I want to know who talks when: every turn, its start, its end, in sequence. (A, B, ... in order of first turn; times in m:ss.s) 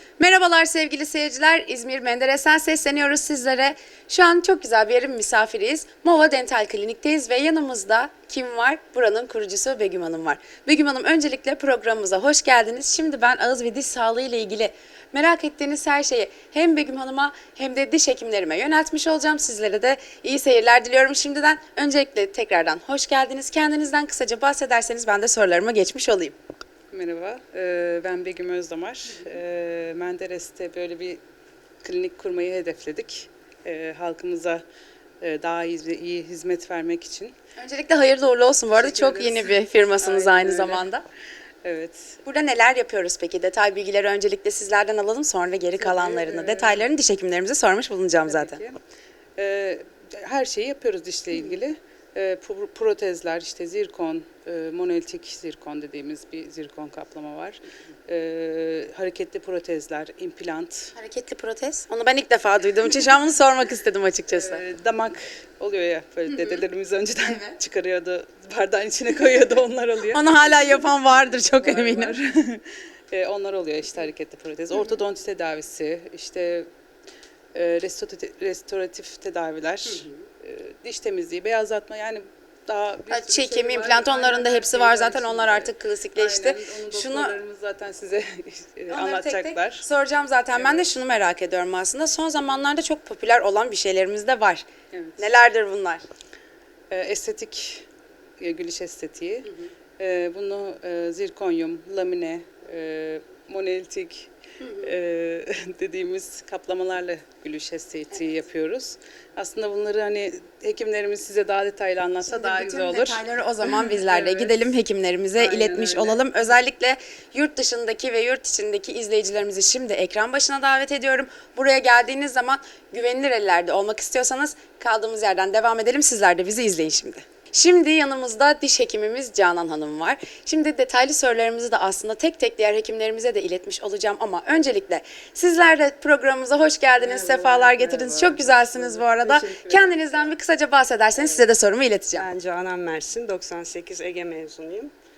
0:00.2-0:26.4 A
0:26.9-0:31.2 B
0:31.8-0:34.6 B
0:35.2-0:37.4 B
0:37.6-0:41.0 A
0:38.7-0:40.9 B
0:41.6-0:42.2 B
0:42.2-0:48.6 A
0:45.8-0:46.8 B
0:48.2-0:48.8 B
0:49.4-1:00.9 B
1:01.0-1:04.6 A
1:04.3-1:10.3 B
1:10.1-1:12.2 A
1:11.5-1:16.7 B
1:17.5-1:29.9 B
1:23.1-1:27.4 A
1:28.9-1:34.7 A
1:30.5-1:30.9 B
1:34.9-1:35.3 B
1:35.2-1:36.0 A
1:36.9-1:37.8 B
1:38.4-1:54.5 B
1:52.2-2:22.3 A
1:55.4-1:56.2 B
2:17.0-2:20.3 C
2:21.2-2:21.4 C
2:22.2-2:24.9 C